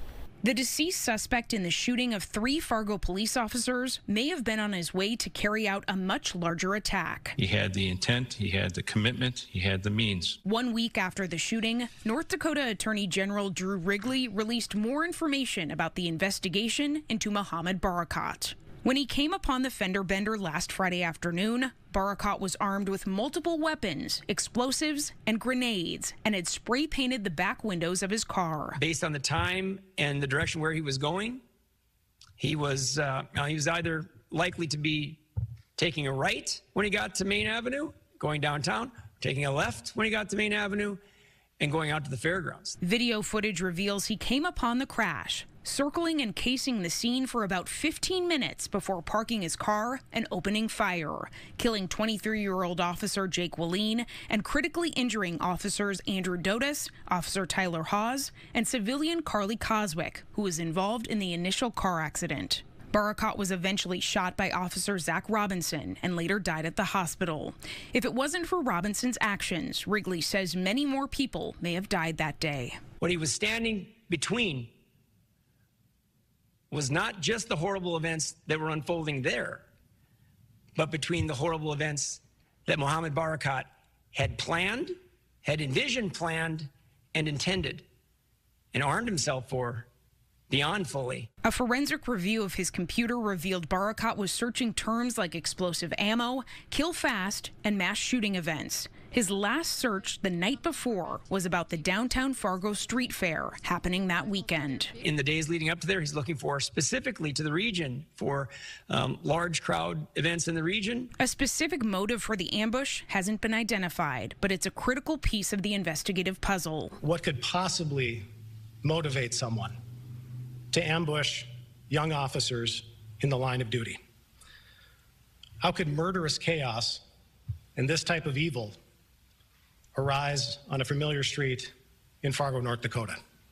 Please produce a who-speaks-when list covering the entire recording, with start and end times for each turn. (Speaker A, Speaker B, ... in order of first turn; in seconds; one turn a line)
Speaker A: 0.4-7.3
Speaker B: 7.4-10.4
Speaker A: 10.4-28.8
Speaker C: 28.8-31.4
Speaker C: 32.4-35.2
Speaker C: 35.8-41.0
Speaker C: 41.6-42.8
Speaker A: 42.8-72.8
Speaker C: 73.0-74.7
Speaker C: 76.7-79.6
Speaker C: 80.8-87.9
Speaker C: 88.7-89.9
Speaker C: 90.5-91.3
Speaker A: 91.4-105.0
Speaker C: 105.0-111.1
Speaker A: 111.2-117.0
Speaker D: 117.0-118.2
Speaker D: 118.8-119.8
Speaker D: 120.7-124.0
Speaker D: 125.6-127.0
Speaker D: 127.8-128.8
Speaker D: 129.9-133.2